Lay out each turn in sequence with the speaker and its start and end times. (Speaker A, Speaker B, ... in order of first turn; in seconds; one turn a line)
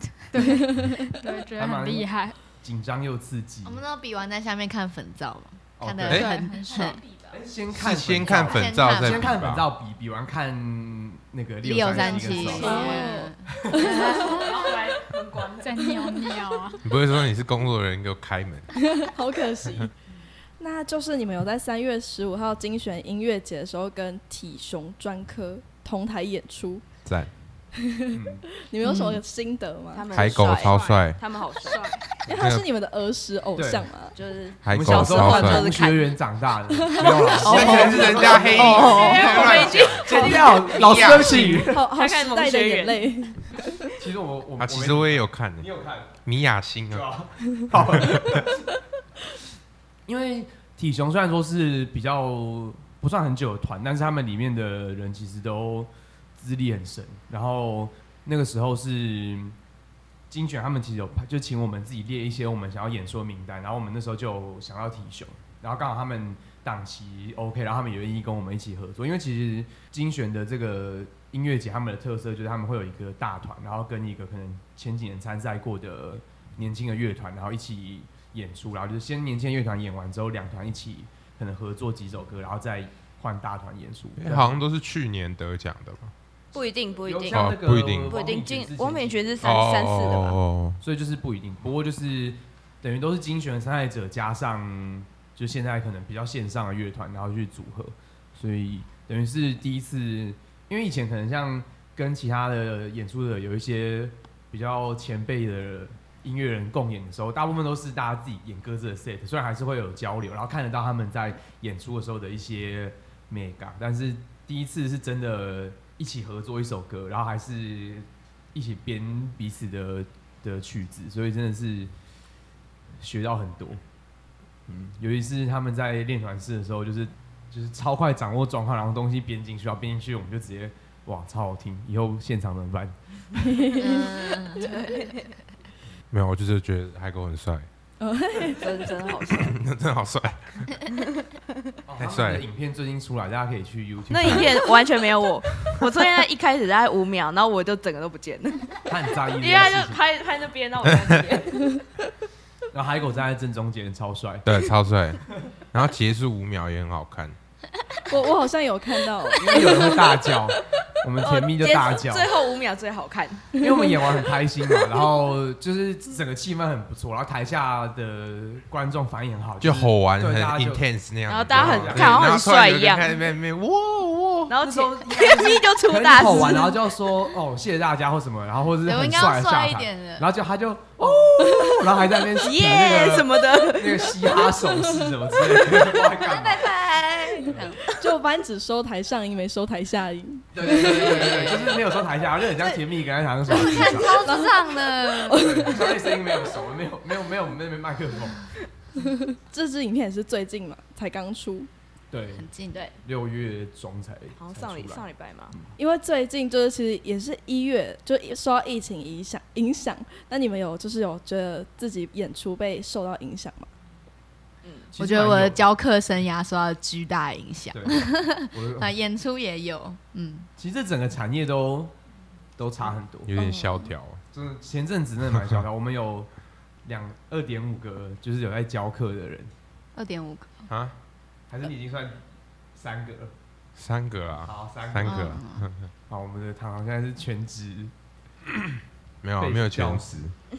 Speaker A: 0.2-2.4
Speaker B: 0.3-1.4
Speaker C: 1.6-3.8
Speaker D: 3.6-7.0
Speaker C: 5.8-6.3
Speaker A: 6.1-7.0
Speaker E: 7.0-7.3
Speaker C: 7.3-12.9
Speaker F: 7.7-9.7
Speaker D: 8.2-9.3
Speaker D: 11.6-14.7
Speaker E: 12.0-13.1
Speaker B: 12.5-14.5
Speaker C: 13.4-13.9
Speaker E: 13.9-15.7
Speaker A: 15.6-16.8
Speaker F: 16.8-18.7
Speaker B: 18.7-19.9
Speaker B: 20.6-26.9
Speaker F: 27.0-27.3
Speaker B: 27.8-30.2
Speaker C: 28.1-28.4
Speaker D: 28.8-29.2
Speaker E: 29.9-32.0
Speaker F: 30.1-31.2
Speaker A: 30.4-30.9
Speaker A: 31.7-32.0
Speaker B: 32.3-34.1
Speaker F: 32.4-32.6
Speaker C: 33.5-33.9
Speaker E: 34.1-36.2
Speaker F: 34.6-35.7
Speaker C: 34.7-41.9
Speaker B: 36.8-37.4
Speaker F: 37.2-41.6
Speaker E: 37.3-43.3
Speaker B: 41.6-43.9
Speaker C: 43.9-46.2
Speaker F: 44.6-45.7
Speaker F: 46.2-47.1
Speaker C: 46.9-48.7
Speaker F: 47.7-48.5
Speaker C: 50.1-59.5
Speaker C: 60.3-84.6
Speaker F: 84.2-86.1
Speaker E: 86.5-90.4
Speaker C: 87.0-89.4
Speaker F: 87.3-88.2
Speaker F: 89.4-90.8
Speaker C: 90.8-121.9
Speaker C: 123.0-123.8
Speaker C: 124.7-133.4
Speaker B: 133.4-134.1
Speaker D: 133.8-134.8
Speaker E: 133.9-135.3
Speaker F: 136.1-137.7
Speaker B: 138.0-138.6
Speaker E: 138.6-139.6
Speaker F: 139.2-140.8
Speaker E: 140.9-141.4
Speaker C: 141.8-144.6
Speaker F: 142.0-142.4
Speaker E: 144.1-151.8
Speaker C: 148.9-150.0
Speaker C: 152.7-154.4
Speaker F: 154.4-157.3
Speaker B: 158.1-159.6
Speaker C: 159.4-162.4
Speaker E: 159.5-160.2
Speaker E: 161.2-163.6
Speaker C: 163.6-170.9
Speaker F: 169.6-174.6
Speaker E: 171.3-173.2
Speaker C: 171.5-172.3
Speaker E: 174.5-176.9
Speaker C: 174.6-186.7
Speaker D: 178.8-180.3
Speaker E: 182.3-184.4
Speaker D: 186.1-187.8
Speaker B: 187.9-191.4
Speaker C: 190.5-194.2
Speaker D: 190.7-191.8
Speaker D: 193.5-195.8
Speaker B: 193.6-196.0
Speaker C: 195.3-198.5
Speaker B: 199.0-201.7
Speaker C: 202.1-202.4
Speaker D: 202.3-202.9
Speaker C: 203.0-205.7
Speaker E: 204.4-205.6
Speaker B: 205.8-213.7
Speaker E: 214.6-214.9
Speaker C: 214.9-215.6
Speaker D: 215.0-220.5
Speaker C: 217.7-218.9
Speaker C: 220.6-221.9
Speaker C: 222.6-223.3
Speaker F: 223.3-224.2
Speaker D: 223.4-223.8
Speaker C: 224.3-226.3
Speaker F: 225.3-225.6
Speaker C: 226.8-229.5
Speaker D: 229.9-230.7
Speaker F: 230.7-230.9
Speaker C: 231.5-232.2
Speaker C: 232.7-233.3
Speaker F: 233.8-235.9
Speaker C: 234.4-235.4
Speaker D: 235.0-235.7
Speaker C: 236.1-237.9
Speaker F: 239.2-240.3
Speaker C: 239.4-240.2